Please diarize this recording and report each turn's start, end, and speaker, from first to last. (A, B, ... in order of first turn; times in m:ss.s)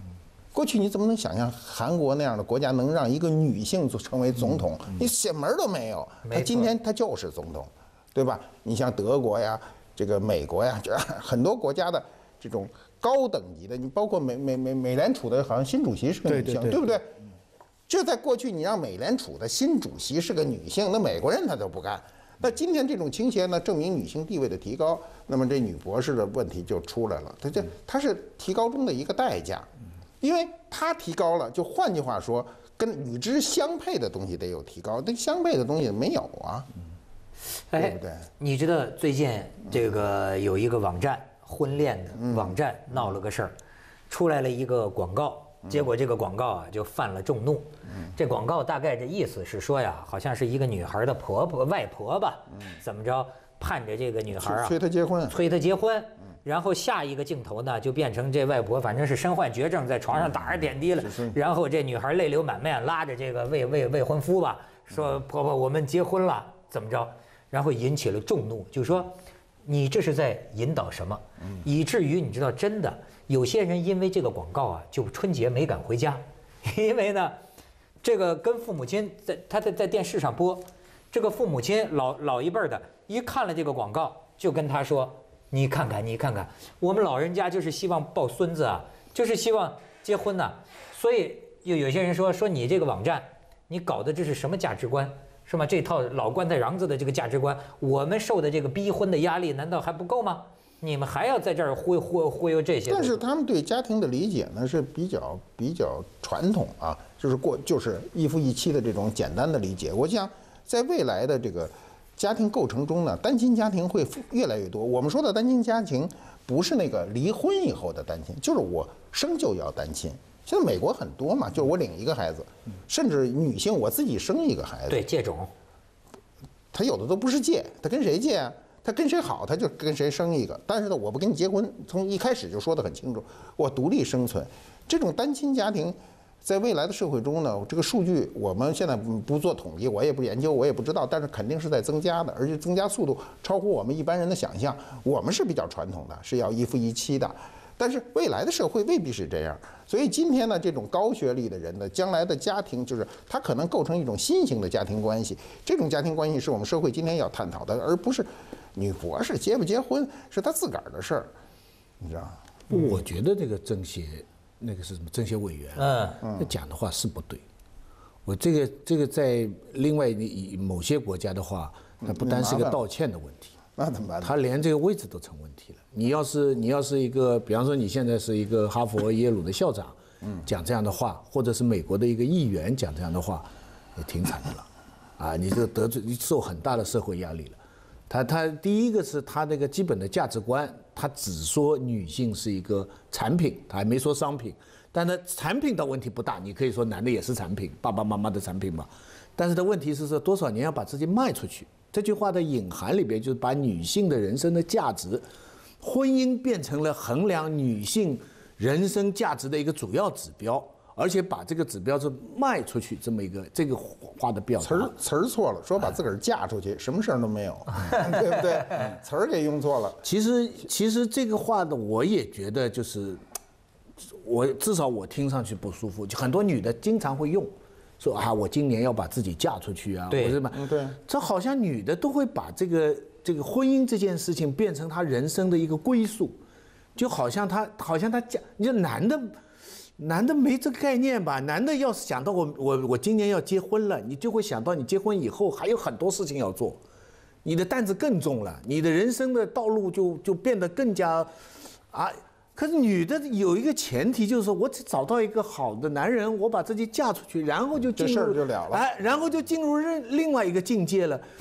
0:00.5-0:17.1 A
0:06.2-0:06.7 B
0:16.3-0:16.8 C
0:17.9-0:29.7 A
0:30.2-0:36.7 A
0:37.7-0:43.5 B
0:37.8-0:38.2 A
0:42.2-0:42.6 A
0:44.1-0:54.7 B
0:54.3-0:55.4 A
0:55.3-1:17.4 B
1:01.0-1:01.4 A
1:18.0-1:43.2 B
1:42.9-2:05.0 A
2:04.9-2:05.5 B
2:06.7-2:41.3 A
2:42.0-2:42.9 A
2:42.7-2:47.4 C
2:45.8-2:46.2 B
2:46.2-2:46.5 A
2:48.2-2:53.5 C
2:52.0-2:52.8 A
2:53.8-2:54.3 A
2:54.2-3:25.2 C
3:25.8-3:34.9 C
3:34.6-3:40.0 A
3:40.0-3:43.2 C
3:44.0-3:56.4 C
3:50.1-3:50.4 B
3:50.5-3:51.0 A
3:57.0-3:59.4 C
4:00.0-4:06.8 C
4:07.4-4:11.3 C
4:11.9-4:21.2 C
4:17.9-4:18.9 A